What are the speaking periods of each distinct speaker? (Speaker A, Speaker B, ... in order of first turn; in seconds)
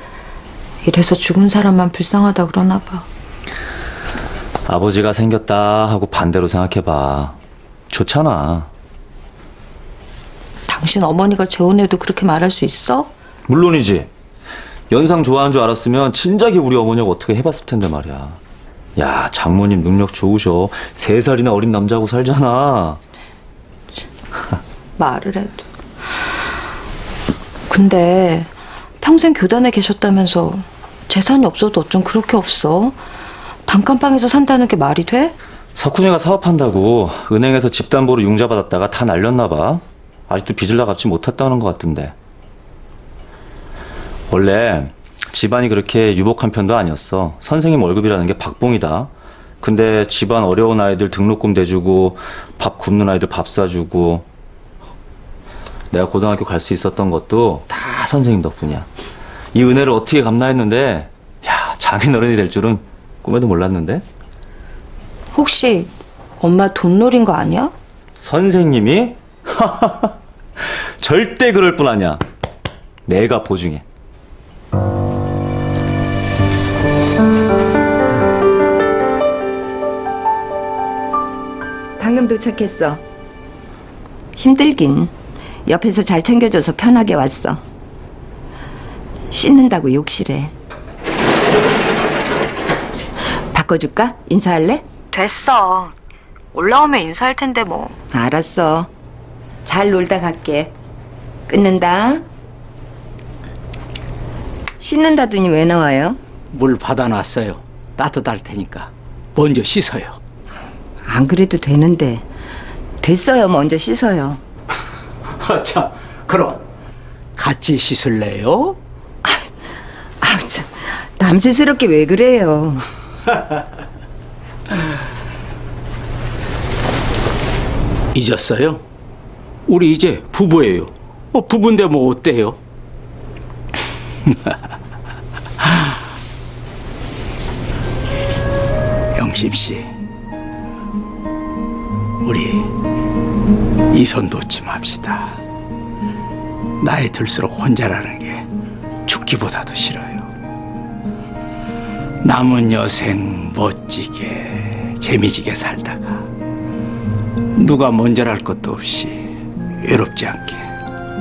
Speaker A: 0.8-3.0, 10.7-13.1, 25.0-25.6, 27.7-33.0, 33.7-35.3, 65.3-67.7, 95.1-95.9, 96.5-98.0
Speaker B: 4.7-7.3, 7.9-8.7, 13.5-14.1, 14.9-18.4, 19.0-23.0, 35.7-42.1, 44.3-49.1, 49.6-54.2, 55.9-58.9, 59.5-64.0, 68.2-70.1, 71.0-72.2, 73.1-73.8
Speaker C: 82.0-83.0, 84.4-85.1, 85.7-87.6, 89.3-90.5, 93.5-94.8, 98.1-98.9, 99.6-100.7, 101.5-102.2, 104.8-106.2, 111.0-112.2, 113.0-114.4, 120.2-122.9
Speaker D: 106.5-110.2, 115.4-116.6, 117.4-118.8, 128.1-128.8, 129.7-132.6, 134.3-134.6, 139.1-139.9, 142.2-142.7, 143.9-145.4, 146.8-148.4, 149.1-150.3, 152.2-156.2, 157.6-160.6